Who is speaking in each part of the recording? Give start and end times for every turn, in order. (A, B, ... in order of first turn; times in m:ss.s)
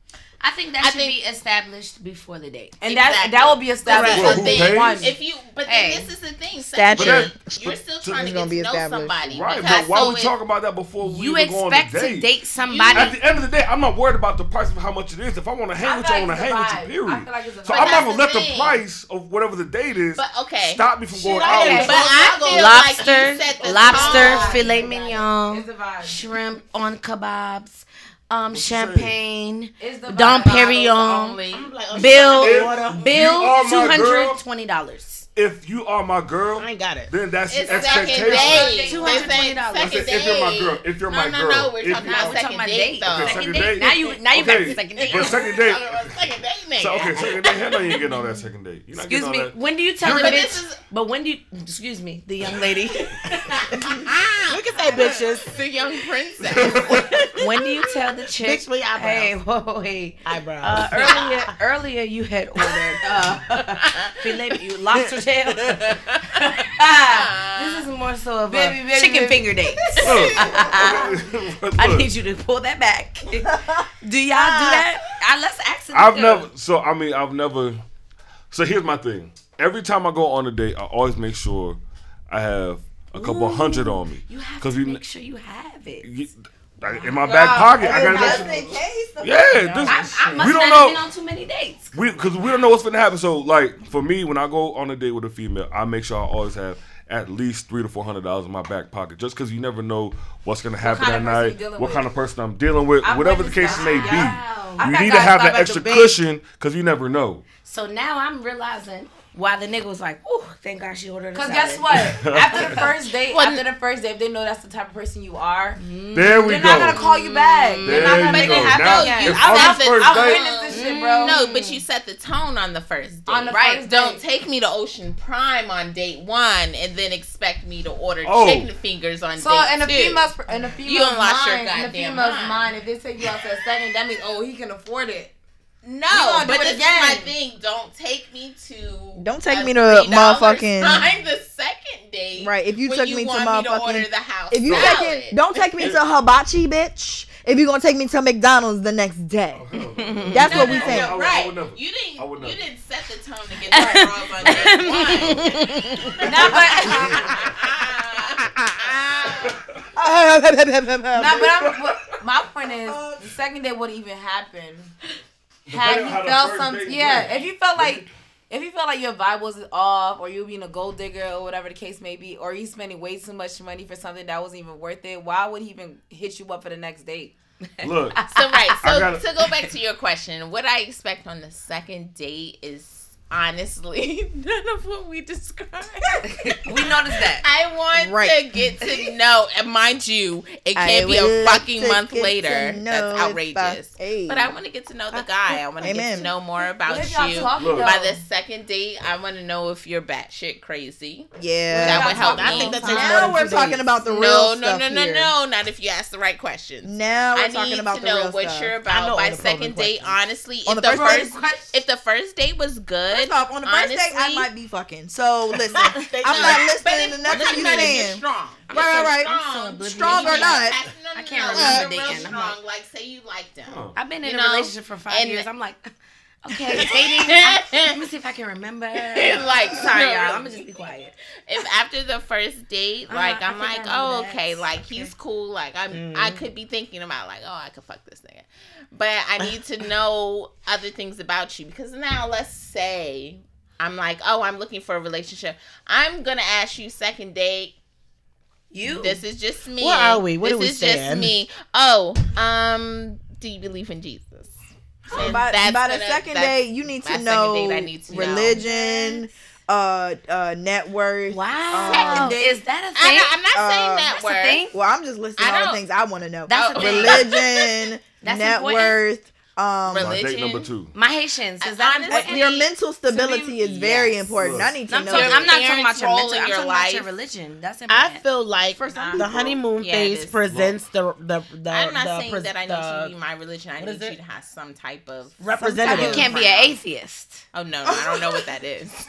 0:00.4-0:02.7 A
0:00.8-0:01.2 B
0:02.8-0:05.2 C
0:02.8-0:10.3 B
0:03.9-0:04.5 D
0:04.0-0:05.0 E
0:05.7-0:06.1 A
0:06.7-0:07.4 F
0:06.9-0:08.3 E
0:08.1-0:09.2 F
0:09.2-0:12.3 E
0:11.0-0:13.2 A
0:12.6-0:13.2 B
0:12.9-0:22.1 E
0:15.8-0:18.2 C
0:17.7-0:18.8 B
0:20.2-0:20.8 B
0:21.1-0:22.9 D
0:21.4-0:31.4 A
0:21.7-0:24.7 B
0:23.6-0:26.2 C
0:28.5-0:29.2 E
0:29.8-0:30.8 C
0:30.4-0:32.2 B
0:31.5-0:33.2 D
0:31.9-0:35.3 A
0:32.2-0:34.4 E
0:35.3-0:38.8 E
0:36.6-0:37.2 D
0:37.5-0:43.7 B
0:38.2-0:40.1 A
0:38.5-0:39.3 C
0:39.0-0:39.3 D
0:39.8-0:42.4 E
0:42.0-0:45.5 A
0:43.0-0:46.2 E
0:44.4-0:48.1 B
0:46.8-0:50.5 E
0:49.0-0:53.8 A
0:50.0-0:50.8 B
0:53.3-0:57.2 B
0:54.5-0:55.6 D
0:54.7-0:55.2 A
0:56.5-0:57.2 E
0:56.7-1:11.1 A
0:56.9-0:57.3 D
0:58.4-0:59.3 D
1:00.2-1:01.4 D
1:03.8-1:04.1 B
1:07.1-1:07.9 B
1:08.5-1:10.2 C
1:10.0-1:12.1 E
1:11.7-1:16.5 A
1:13.5-1:14.8 F
1:15.9-1:17.8 E
1:18.5-1:25.0 E
1:23.1-1:26.1 A
1:26.0-1:31.0 E
1:27.2-1:28.7 B
1:27.8-1:29.9 F
1:29.8-1:32.0 A
1:31.9-1:47.4 E
1:40.8-1:42.1 C
1:43.0-1:46.0 C
1:43.6-1:44.9 A
1:45.5-1:46.1 D
1:47.6-1:52.9 A
1:51.3-1:55.8 C
1:52.0-1:52.9 E
1:53.3-1:53.6 B
1:55.8-1:58.6 A
1:56.1-1:57.0 E
1:56.4-2:01.4 C
1:57.8-2:00.4 E
1:58.0-2:10.3 B
2:00.7-2:01.8 A
2:03.3-2:04.2 C
2:03.5-2:03.9 A
2:08.2-2:08.7 E
2:09.4-2:15.3 C
2:10.8-2:12.7 B
2:15.8-2:25.4 B
2:16.1-2:17.3 C
2:19.2-2:21.1 F
2:22.4-2:29.6 F
2:24.7-2:25.0 E
2:29.6-2:32.6 E
2:30.0-2:30.7 A
2:30.3-2:31.2 F
2:30.4-2:35.6 B
2:33.7-2:37.0 A
2:36.2-2:37.3 C
2:36.4-2:39.6 B
2:36.9-2:37.5 E
2:39.3-2:39.8 E
2:40.0-2:41.4 F
2:41.1-2:44.9 C
2:41.4-2:42.2 E
2:42.8-2:43.2 F
2:45.7-2:48.1 E
2:45.7-2:57.3 C
2:57.8-2:58.8 A
2:57.8-2:58.3 E
2:58.3-3:23.3 B
2:58.8-2:59.2 E
3:06.2-3:07.4 A
3:08.0-3:08.4 F
3:10.8-3:14.5 F
3:15.5-3:16.3 F
3:16.8-3:18.2 C
3:16.9-3:18.0 A
3:17.5-3:17.9 E
3:21.4-3:25.3 F
3:21.7-3:23.7 C
3:22.0-3:23.8 D
3:24.0-3:34.5 B
3:26.8-3:28.8 F
3:28.9-3:30.2 D
3:30.7-3:31.3 F
3:30.9-3:31.7 A
3:33.1-3:40.8 F
3:35.7-3:38.1 D
3:36.2-3:45.5 B
3:38.7-3:42.6 A
3:41.5-3:41.9 F
3:43.6-3:44.0 E
3:44.0-3:45.9 A
3:46.4-3:51.1 A
3:46.8-3:48.0 B
3:49.0-3:50.7 B
3:51.5-4:07.8 B
3:53.1-3:55.1 A
3:55.9-3:56.4 D
4:08.7-4:09.2 A
4:08.8-4:14.6 B
4:09.8-4:11.3 D
4:15.1-4:18.6 B
4:15.1-4:22.4 F
4:18.1-4:19.2 A
4:21.3-4:23.3 A
4:21.9-4:24.7 B
4:23.5-4:24.1 F
4:24.1-4:24.8 A
4:24.7-4:30.3 F
4:25.4-4:25.8 B
4:26.5-4:27.3 A
4:26.5-4:27.9 B
4:28.2-4:29.0 A
4:29.9-4:30.7 B
4:30.0-4:30.9 E
4:30.9-4:32.5 A
4:31.6-4:32.7 B
4:32.1-4:35.5 F
4:33.1-4:33.6 C
4:33.8-4:34.1 B
4:34.3-4:34.8 E
4:34.9-4:38.2 A
4:35.1-4:37.1 B
4:37.9-4:43.1 D
4:38.8-4:39.4 F
4:38.9-4:40.4 B
4:40.5-4:40.8 E
4:41.7-4:46.8 B
4:43.8-4:44.2 D
4:45.4-4:46.3 D
4:45.7-4:46.3 F
4:45.8-4:47.4 A
4:47.5-4:49.0 B
4:47.9-4:48.5 F